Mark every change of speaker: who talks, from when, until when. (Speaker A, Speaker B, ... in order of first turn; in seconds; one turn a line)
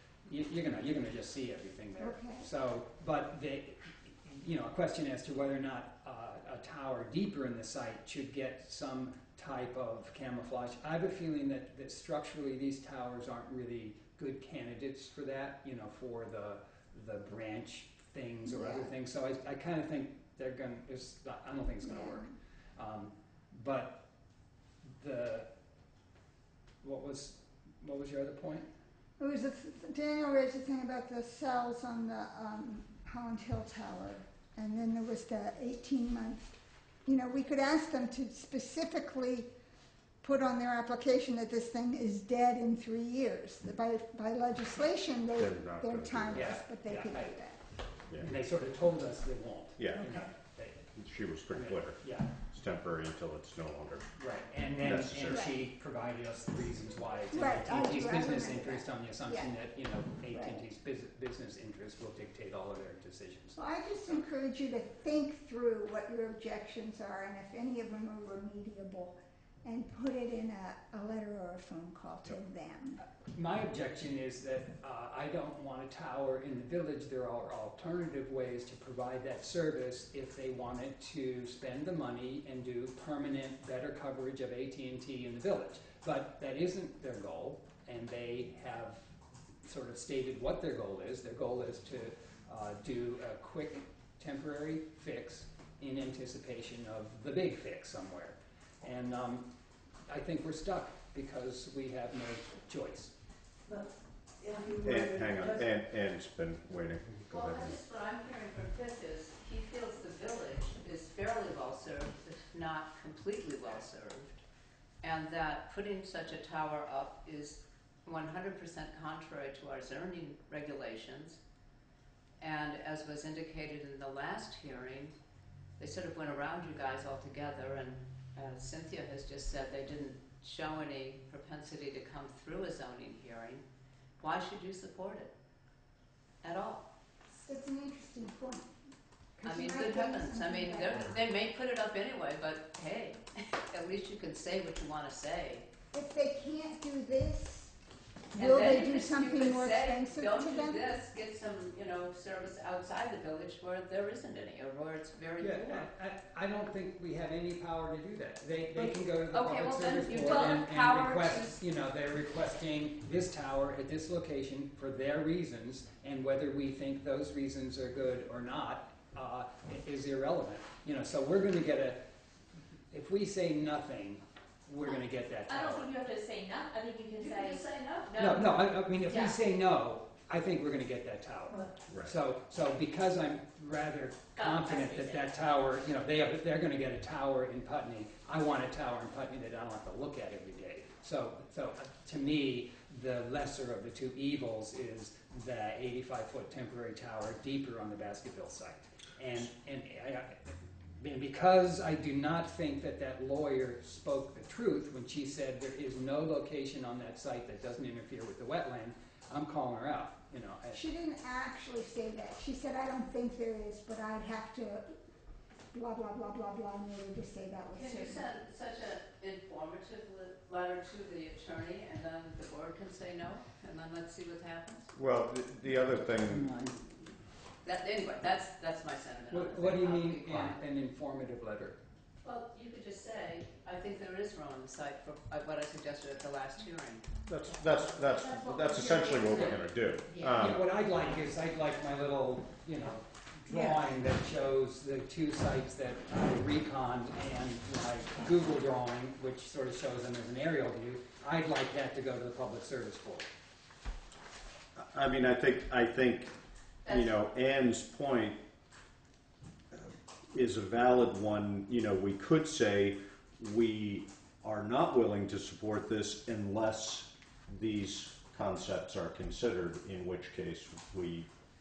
Speaker A: 0.3-24.0
Speaker B: 2.0-2.5
Speaker B: 18.4-18.9
Speaker B: 21.8-22.3
Speaker A: 24.9-25.5
Speaker A: 26.8-28.7
Speaker B: 29.2-39.5
Speaker B: 40.2-47.6
Speaker C: 45.4-46.5
Speaker A: 46.3-47.4
Speaker A: 48.2-50.9
Speaker C: 49.8-50.3
Speaker C: 51.0-52.0
Speaker A: 51.5-52.3
Speaker C: 52.5-54.1
Speaker A: 54.2-64.2
Speaker C: 54.8-55.5
Speaker B: 55.2-55.6
Speaker B: 57.3-59.5
Speaker B: 60.3-60.6
Speaker B: 63.6-73.0
Speaker A: 73.0-89.0
Speaker A: 89.6-99.5
Speaker A: 100.1-103.1
Speaker D: 103.7-105.7
Speaker C: 104.8-107.8
Speaker E: 107.3-114.4
Speaker E: 115.0-121.4
Speaker E: 122.4-125.2
Speaker E: 125.8-133.6
Speaker E: 134.2-135.3
Speaker E: 136.4-136.9
Speaker B: 137.3-138.8
Speaker B: 139.4-141.2
Speaker E: 139.4-145.7
Speaker B: 145.9-147.8
Speaker B: 148.3-150.8
Speaker E: 148.3-155.9
Speaker A: 155.4-172.1
Speaker E: 158.8-161.6
Speaker F: 160.2-160.6
Speaker A: 172.9-175.9
Speaker F: 174.8-179.4
Speaker E: 177.1-178.1
Speaker A: 178.2-210.8
Speaker F: 184.4-185.2
Speaker B: 210.7-215.0
Speaker B: 215.7-218.2
Speaker E: 217.7-224.9
Speaker C: 225.0-226.7
Speaker D: 225.9-226.8
Speaker E: 227.6-230.6
Speaker A: 229.3-231.8
Speaker E: 232.2-237.8
Speaker C: 237.3-240.7
Speaker F: 237.9-239.7
Speaker A: 240.2-253.3
Speaker C: 254.8-256.3
Speaker E: 256.9-257.1
Speaker C: 256.9-258.4
Speaker C: 259.8-271.3